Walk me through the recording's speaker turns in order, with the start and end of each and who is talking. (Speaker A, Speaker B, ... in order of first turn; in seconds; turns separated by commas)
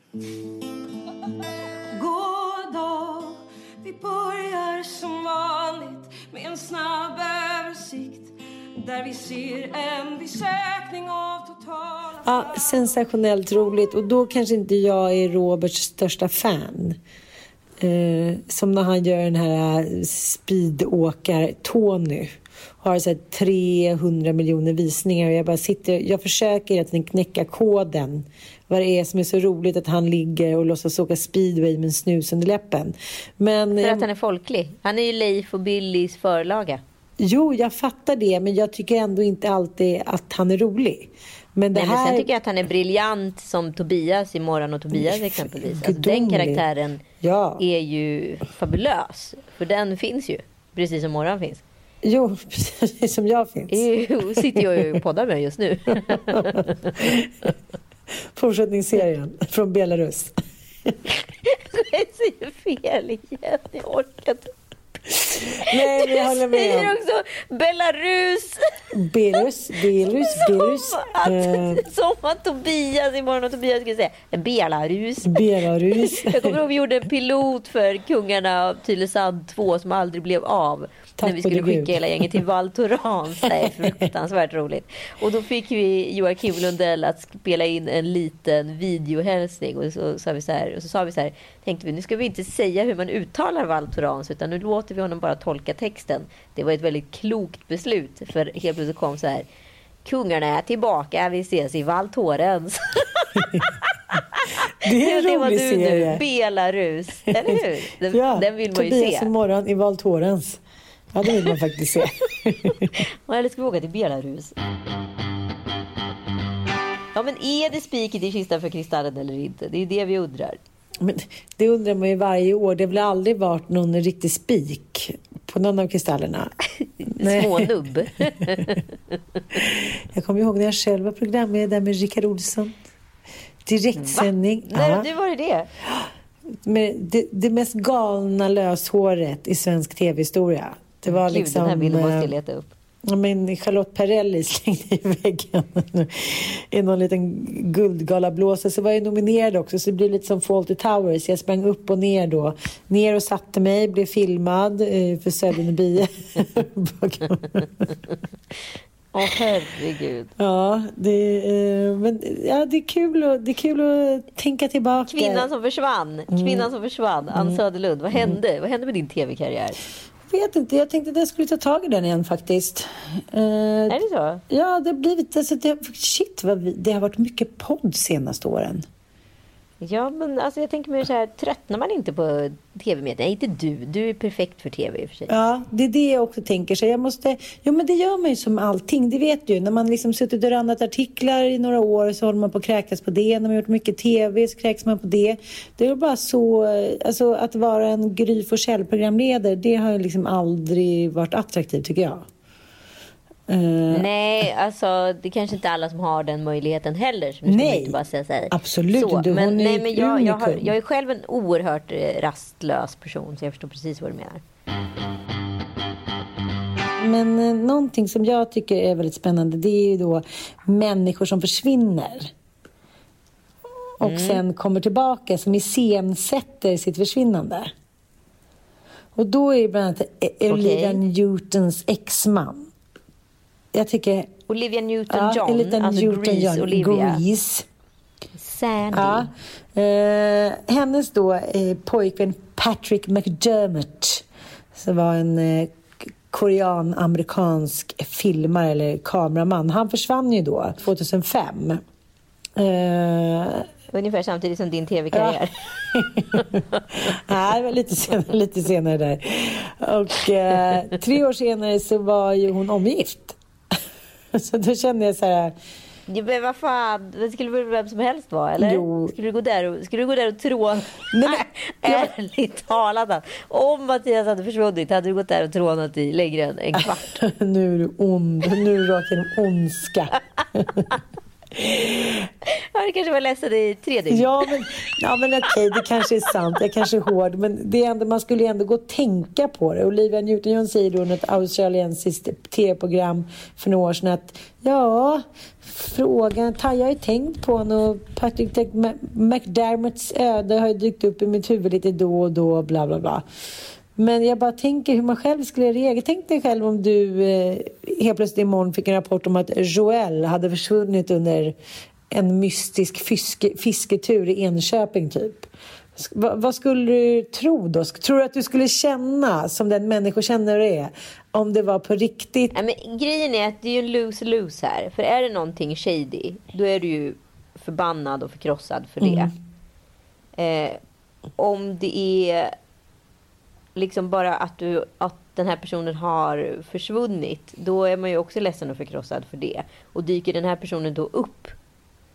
Speaker A: 1.9-12.9, Speaker B: 12.2-17.0, Speaker B: 17.8-34.0, Speaker C: 33.8-36.8, Speaker B: 37.2-42.3, Speaker C: 41.7-47.0, Speaker B: 44.9-46.6, Speaker B: 47.2-47.6, Speaker C: 47.6-51.6, Speaker B: 52.0-55.0, Speaker C: 53.7-57.5, Speaker B: 56.1-57.5, Speaker B: 58.3-60.3, Speaker C: 61.4-64.5, Speaker B: 65.1-67.0, Speaker C: 65.6-68.6, Speaker B: 68.9-71.8, Speaker C: 70.2-99.5, Speaker B: 75.2-76.6, Speaker B: 81.2-82.4, Speaker B: 83.4-84.1, Speaker C: 100.0-103.7, Speaker B: 103.4-103.6, Speaker C: 104.3-109.3, Speaker B: 104.8-106.2, Speaker B: 107.4-110.6, Speaker B: 111.1-112.9, Speaker C: 112.9-114.5, Speaker C: 117.1-120.6, Speaker B: 121.0-126.5, Speaker B: 127.1-127.7, Speaker C: 127.1-128.8, Speaker B: 128.5-128.8, Speaker B: 129.5-132.8, Speaker B: 133.6-135.1, Speaker C: 133.9-135.7, Speaker B: 136.6-142.3, Speaker C: 141.1-142.7, Speaker B: 143.1-157.9, Speaker C: 159.1-160.3, Speaker B: 160.4-165.5, Speaker C: 165.1-169.8, Speaker B: 166.3-166.7, Speaker B: 167.3-167.6, Speaker B: 170.3-178.8, Speaker C: 173.9-174.4, Speaker C: 179.8-185.3, Speaker B: 185.3-202.2, Speaker B: 203.5-204.1, Speaker C: 203.9-214.4, Speaker B: 207.5-208.0, Speaker B: 208.5-210.7, Speaker B: 217.0-222.3, Speaker B: 224.0-227.7, Speaker C: 224.0-224.4, Speaker B: 229.2-232.7, Speaker C: 230.5-231.0, Speaker B: 233.7-234.3, Speaker C: 234.5-237.2, Speaker B: 235.1-237.7, Speaker C: 238.4-239.3, Speaker B: 238.9-251.8, Speaker B: 252.6-253.7, Speaker C: 253.9-255.5, Speaker B: 255.1-263.8, Speaker C: 256.3-256.8, Speaker B: 264.3-265.5, Speaker C: 266.1-277.2, Speaker B: 268.6-269.1, Speaker B: 271.1-272.1, Speaker B: 276.8-280.9, Speaker B: 281.6-282.3, Speaker C: 282.5-284.5, Speaker B: 284.1-303.2, Speaker B: 303.9-311.5, Speaker B: 312.1-322.5, Speaker C: 322.5-329.3, Speaker B: 329.0-329.3, Speaker C: 330.4-330.8, Speaker C: 331.4-332.5, Speaker C: 333.8-341.5